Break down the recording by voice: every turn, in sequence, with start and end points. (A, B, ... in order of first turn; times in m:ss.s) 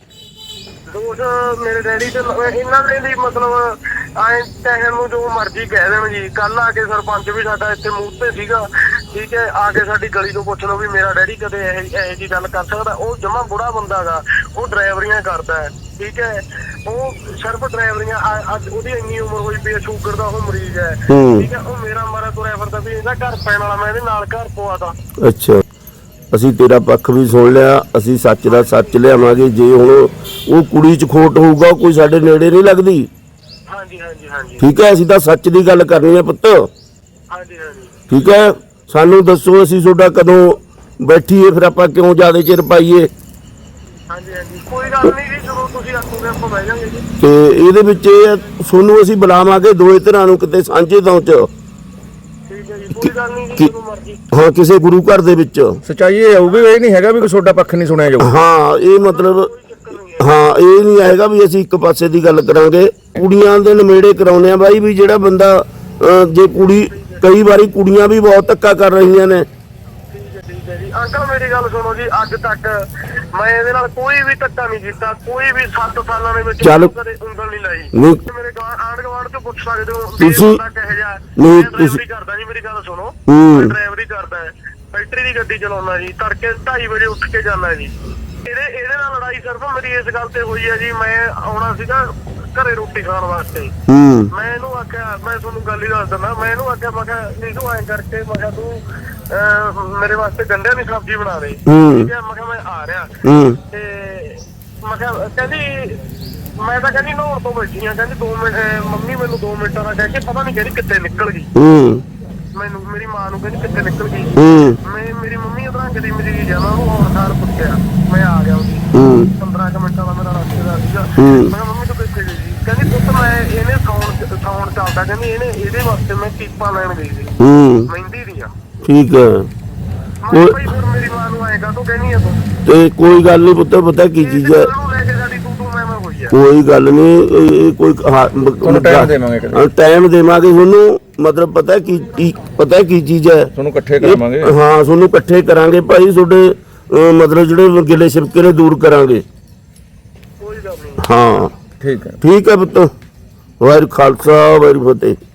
0:00.9-0:24.9 A
0:21.1-0:21.5 B
0:25.2-0:25.6 B
0:26.3-0:33.1 B
0:28.5-0:28.9 A
0:33.7-0:34.6 A
0:34.6-0:36.7 B
0:37.3-0:37.9 A
0:38.1-0:43.1 B
0:44.1-0:47.0 A
0:47.2-0:51.5 B
0:52.5-0:54.2 A
0:52.9-0:53.7 B
0:54.3-0:55.8 B
0:55.8-0:58.3 C
0:56.4-0:56.7 A
0:58.2-0:59.5 B
0:59.0-1:00.3 A
1:00.2-1:09.5 B
1:06.7-1:07.2 A
1:10.1-1:12.8 A
1:13.3-1:27.9 A
1:16.6-1:16.9 B
1:17.9-1:18.2 B
1:20.2-1:20.6 B
1:21.4-1:22.0 B
1:23.3-1:23.7 B
1:28.4-1:32.0 A
1:32.5-1:33.7 A
1:33.9-1:34.3 B
1:34.3-1:38.8 A
1:39.3-1:43.1 A
1:41.7-1:42.1 B
1:43.2-1:43.6 B
1:43.7-1:46.0 A
1:46.6-1:51.5 A
1:51.5-1:52.0 B
1:52.5-1:58.8 A
1:54.4-1:54.8 B
1:58.9-1:59.3 B
1:59.4-2:07.3 A
2:01.2-2:01.5 B
2:07.4-2:07.9 B
2:07.9-2:08.5 A
2:08.8-2:09.5 B
2:10.2-2:12.4 A
2:10.3-2:10.6 B
2:12.6-2:14.7 B
2:14.2-2:16.3 A
2:16.3-2:29.2 B
2:18.6-2:19.6 C
2:23.5-2:24.5 C
2:30.4-2:31.0 A
2:31.0-2:31.5 B
2:31.8-2:32.2 C
2:32.2-2:32.9 B
2:33.6-2:35.2 B